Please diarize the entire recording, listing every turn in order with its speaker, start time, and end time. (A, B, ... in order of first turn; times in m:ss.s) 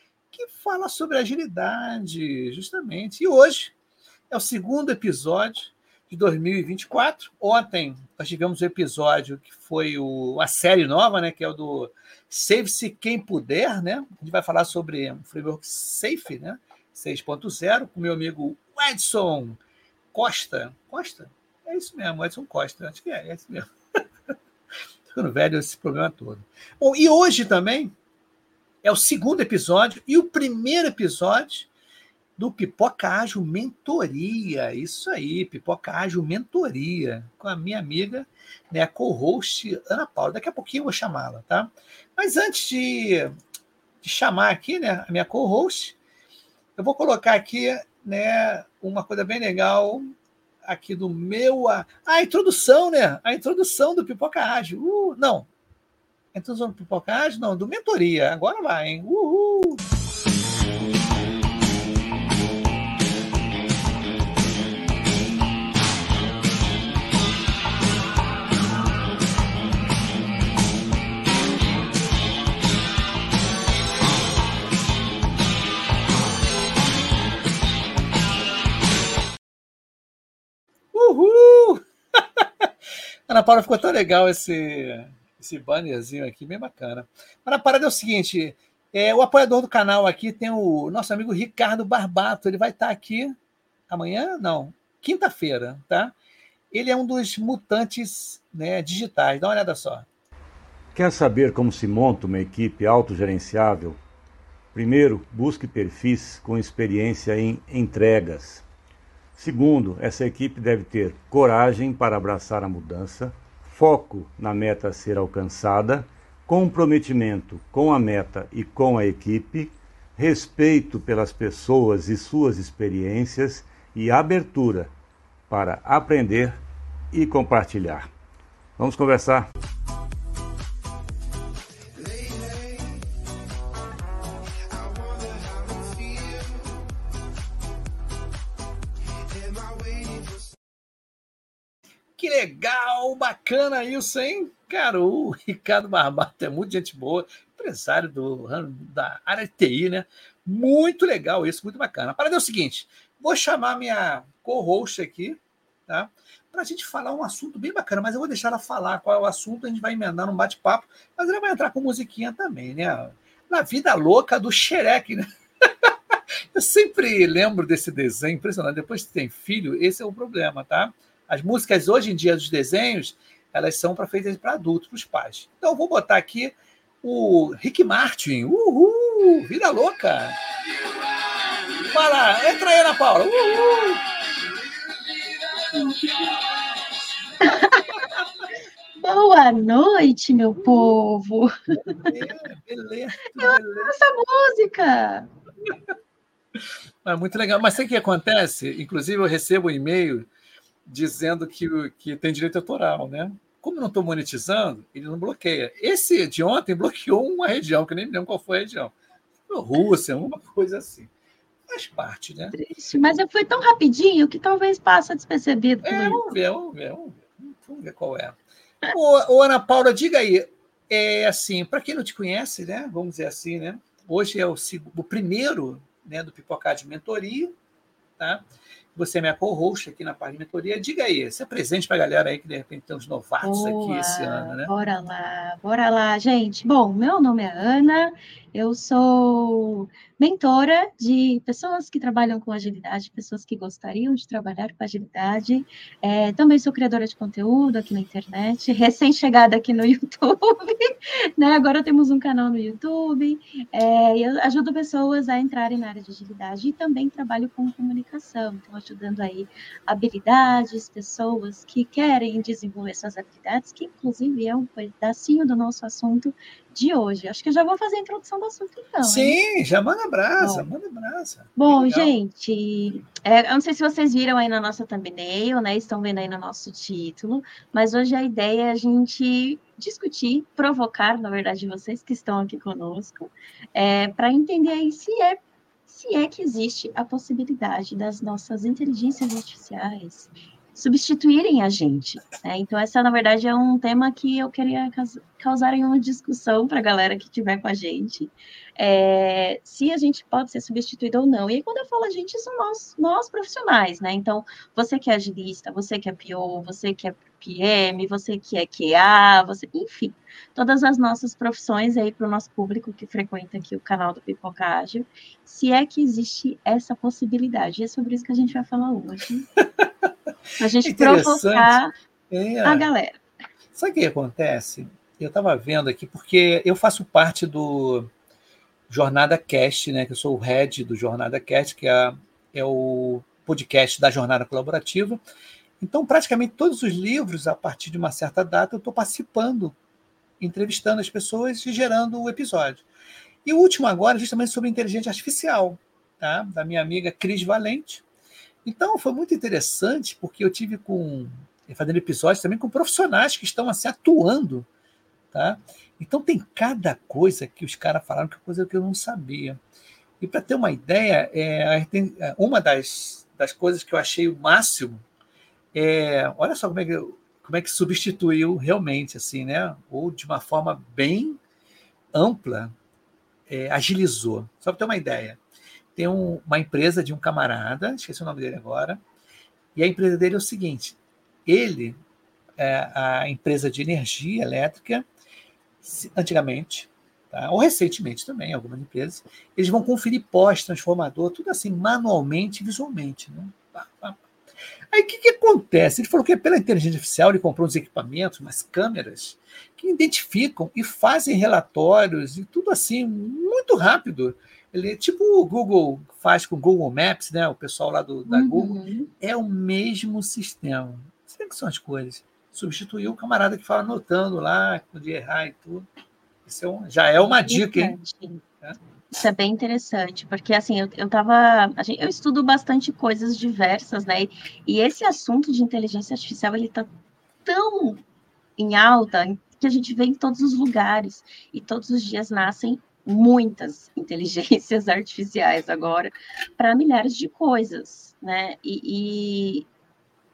0:00.3-0:03.7 A
0:04.3-0:19.6 A
0:20.1-0:23.7 A
0:25.1-0:27.9 A
0:28.8-0:31.7 A
0:32.4-0:43.3 A
0:44.0-0:46.0 A
0:46.8-0:50.1 A
0:50.6-0:55.5 A
0:56.3-0:59.8 A
1:20.9-1:22.7 A
1:23.3-1:33.4 A
1:33.9-1:36.1 A
1:36.7-1:40.1 A
1:40.9-1:44.0 B
1:44.7-1:48.6 B
1:49.4-2:04.9 B
2:05.5-2:06.6 B
2:07.1-2:08.1 B
2:08.8-2:09.5 B
2:22.2-3:00.4 A
3:01.9-3:04.0 A
3:07.4-3:08.1 C
3:08.0-3:08.5 A
3:09.0-3:12.1 C
3:10.6-3:10.9 A
3:12.0-3:13.9 A
3:13.4-3:15.3 C
3:16.6-3:20.3 A
3:20.9-3:28.9 A
3:29.5-3:31.1 A
3:31.7-3:32.6 A
3:32.5-3:36.3 C
3:35.8-3:38.4 A
3:38.9-3:47.5 A
3:48.2-3:54.7 A
3:53.4-4:29.4 C
4:29.0-4:32.1 A
4:30.4-4:30.7 C
4:31.6-5:19.5 C
5:19.6-5:20.1 A
5:20.6-5:21.9 C
5:20.8-5:21.8 A
5:22.3-5:22.9 A
5:22.6-5:23.2 C
5:23.8-5:28.1 A
5:28.9-5:35.2 A
5:35.8-5:39.8 A
5:40.4-5:42.8 A
5:43.4-5:48.0 A
5:48.6-5:54.7 A
5:55.3-5:59.6 A
6:00.2-6:05.0 A
6:05.7-6:11.4 A
6:12.1-6:12.7 A
6:13.5-6:15.4 A
6:16.0-6:19.0 A
6:19.8-6:22.0 A
6:22.6-6:25.1 A
6:25.8-6:34.2 A
6:34.9-6:55.9 A
6:48.3-6:49.1 C
6:56.4-6:58.0 A
6:57.3-6:58.4 C
6:59.1-7:06.9 C
7:07.4-7:08.0 C
7:08.6-7:19.7 C